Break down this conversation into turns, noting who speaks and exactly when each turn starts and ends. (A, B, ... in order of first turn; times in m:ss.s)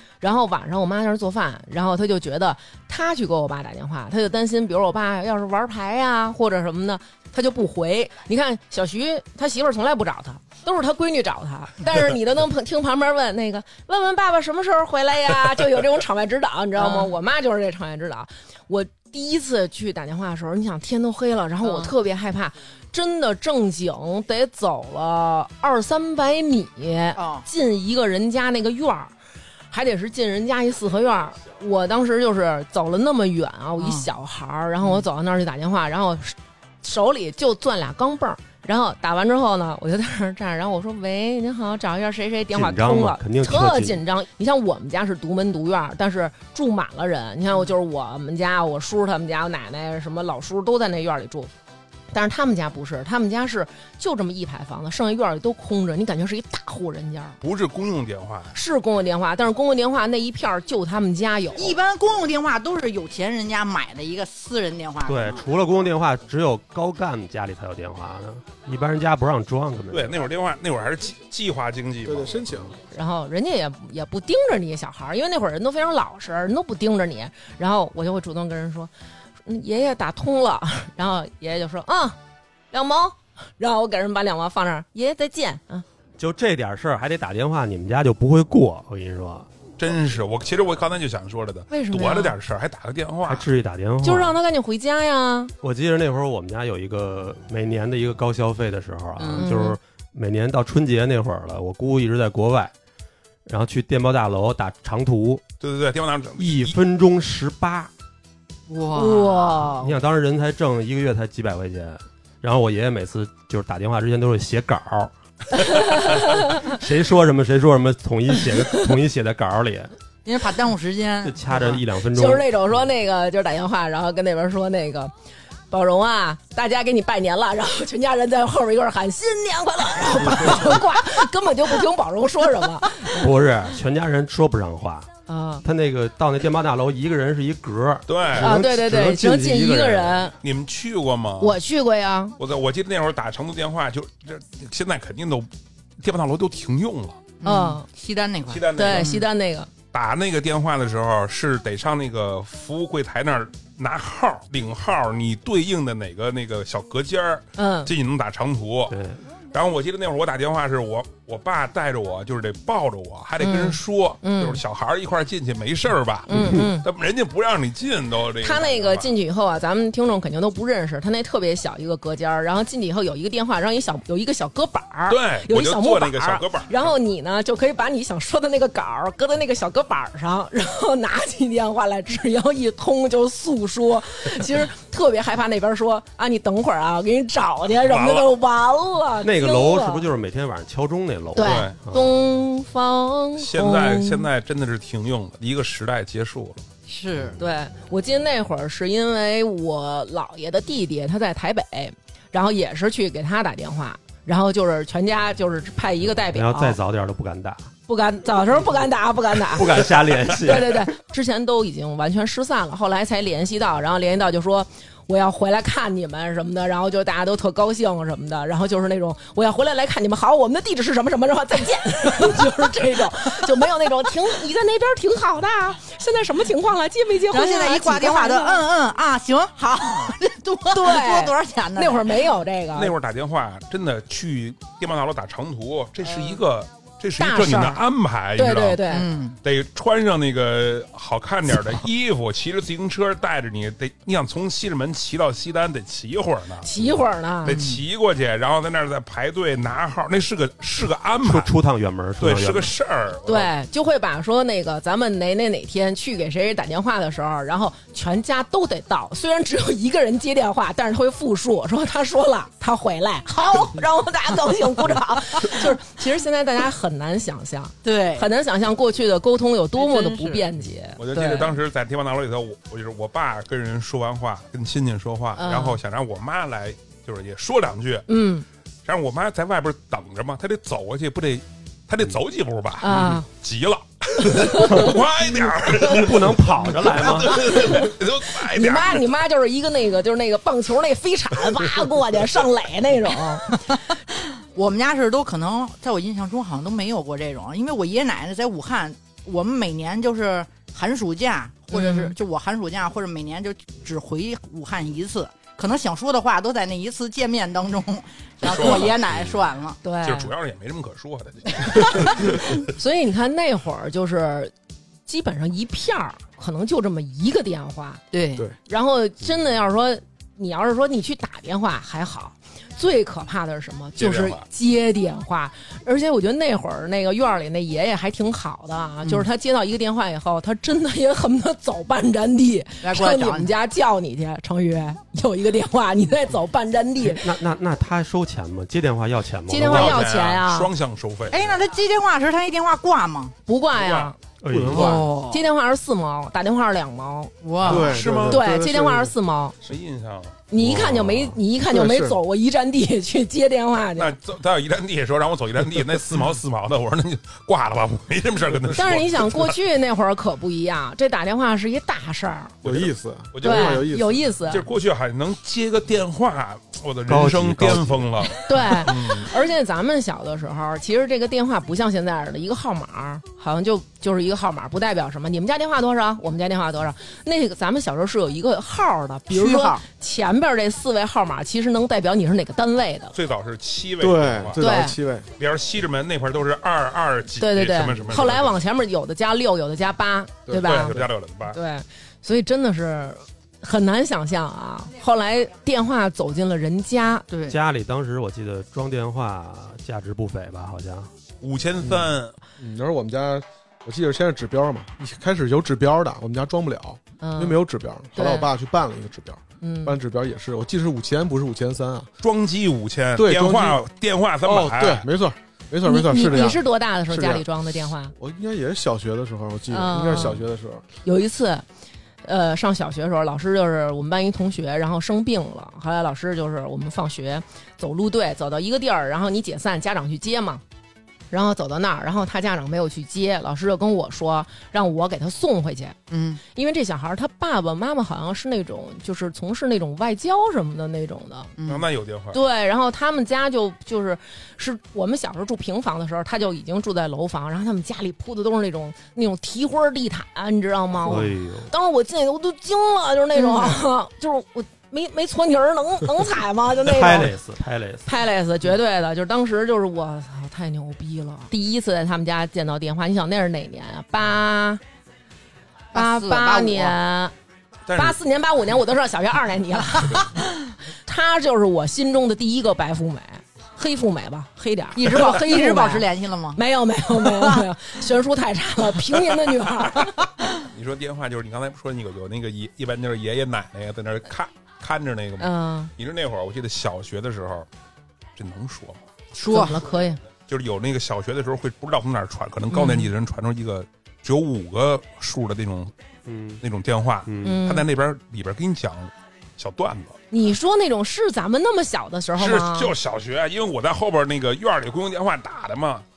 0:00.2-0:29.1 A
0:16.8-0:17.1 B
0:21.6-0:21.9 B
0:27.2-0:27.4 B
0:29.7-0:51.5 A
0:33.8-0:34.1 B
0:42.5-0:44.0 C
0:52.1-0:57.4 A
0:57.4-0:58.6 D
0:58.5-1:01.8 A
1:01.6-1:05.4 B
1:05.1-1:10.2 C
1:09.9-1:12.4 D
1:12.0-1:12.8 E
1:12.9-1:18.9 A
1:19.4-1:22.2 A
1:22.7-1:25.8 A
1:26.2-1:29.5 C
1:29.8-1:33.5 D
1:31.7-1:32.3 A
1:33.2-1:34.4 C
1:34.0-1:35.5 A
1:35.6-1:42.7 C
1:39.2-1:39.5 B
1:39.4-1:39.8 A
1:43.4-1:45.4 C
1:45.6-1:46.8 D
1:46.4-1:47.9 C
1:48.7-1:50.0 B
1:48.9-1:49.8 A
1:49.8-1:59.9 C
1:55.6-1:56.6 A
2:00.2-2:01.8 B
2:01.2-2:02.5 C
2:02.1-2:05.1 A
2:05.7-2:13.2 A
2:13.1-2:15.1 C
2:15.3-2:15.6 A
2:15.6-2:20.2 C
2:18.1-2:18.7 D
2:18.4-2:20.3 A
2:20.4-2:21.6 D
2:21.4-2:22.4 A
2:22.4-2:27.3 D
2:27.4-2:29.2 B
2:27.4-2:27.9 A
2:28.5-2:29.2 D
2:28.8-2:29.7 A
2:29.9-2:38.9 D
2:37.6-2:37.9 A
2:38.9-2:39.2 C
2:39.5-2:49.1 D
2:43.4-2:44.6 A
2:46.3-2:46.9 A
2:46.3-2:46.7 C
2:48.4-3:10.0 A
2:55.1-2:56.7 D
3:07.8-3:08.3 D
3:09.2-3:12.1 C
3:11.3-3:14.3 A
3:11.4-3:11.7 D
3:13.4-3:16.6 D
3:16.9-3:17.4 B
3:17.4-3:26.8 A
3:26.3-3:27.7 C
3:27.9-3:48.6 A
3:29.4-3:30.9 C
3:47.3-3:52.3 B
3:50.7-3:52.9 A
3:52.7-3:58.8 D
3:56.0-3:56.4 B
3:57.2-3:57.8 A
3:58.4-3:59.1 A
3:58.9-3:59.4 B
3:59.4-4:11.5 D
4:06.6-4:07.6 A
4:07.5-4:07.8 B
4:11.2-4:12.7 C
4:12.2-4:13.5 D
4:13.2-4:31.6 A
4:27.8-4:28.3 B
4:29.8-4:30.4 B
4:31.0-4:38.1 D
4:35.4-4:35.8 A
4:38.1-4:38.4 A
4:38.8-4:49.1 D
4:42.8-4:43.3 A
4:44.2-4:44.9 A
4:44.6-4:45.0 C
4:45.6-4:47.6 C
4:47.3-4:53.8 A
4:54.4-5:09.8 B
5:01.7-5:02.1 A
5:08.4-5:09.2 D
5:09.8-5:10.3 A
5:10.0-5:12.5 D
5:12.6-5:14.5 A
5:15.1-5:18.0 A
5:18.1-5:18.4 B
5:18.7-5:37.3 A
5:24.0-5:24.4 D
5:32.8-5:33.5 B
5:37.1-5:40.0 C
5:39.5-5:40.7 A
5:39.6-5:41.6 D
5:41.3-5:43.3 B
5:43.4-5:44.2 A
5:43.7-5:44.1 D
5:44.4-5:45.0 C
5:44.5-5:45.1 E
5:44.6-5:45.4 B
5:44.8-5:49.6 A
5:47.4-5:47.9 B
5:47.6-5:49.1 E
5:47.8-5:48.4 D
5:49.6-5:51.2 D
5:50.5-5:54.1 A
5:51.7-5:52.2 E
5:54.0-5:59.6 D
5:58.7-6:02.6 A
6:02.6-6:03.8 D
6:02.6-6:04.2 E
6:03.4-6:04.6 A
6:04.5-6:09.3 D
6:07.1-6:08.1 C
6:08.4-6:23.1 A
6:19.3-6:19.8 B
6:23.1-6:24.6 D
6:24.0-6:25.3 E
6:24.6-6:25.0 A
6:25.4-6:28.6 D
6:27.4-6:37.3 A
6:30.5-6:30.8 E
6:30.5-6:31.6 D
6:37.3-6:37.6 B
6:37.4-6:41.1 C
6:41.4-6:42.4 D
6:41.8-6:52.1 E
6:47.2-6:47.6 A
6:48.1-6:48.5 A
6:49.6-6:50.0 A
6:52.2-6:55.0 D
6:53.2-6:53.8 E
6:54.4-6:57.4 E
6:55.8-6:58.1 A
6:58.2-7:00.8 E
6:59.7-7:00.4 A
7:01.0-7:01.6 A
7:02.2-7:10.6 A
7:11.3-7:16.0 A
7:16.1-7:16.4 B
7:16.5-7:21.5 A
7:21.6-7:21.8 B
7:21.7-7:22.4 D
7:22.3-7:37.3 A
7:31.0-7:31.7 C
7:36.8-7:38.1 C
7:38.0-7:44.8 A
7:45.9-7:47.0 B
7:45.9-7:47.3 A
7:47.9-7:48.2 D
7:47.9-7:50.3 A
7:51.0-8:00.2 A
7:54.9-7:56.6 B
7:57.2-7:57.6 B
8:00.6-8:07.7 D
8:05.4-8:05.9 A
8:08.4-8:09.0 D
8:09.3-8:09.8 B
8:09.4-8:10.2 A
8:10.5-8:15.9 D
8:12.7-8:13.1 A
8:16.2-8:16.6 C
8:16.6-8:20.2 D
8:17.2-8:17.6 C
8:17.4-8:17.9 A
8:20.3-8:22.9 A
8:22.4-8:26.0 D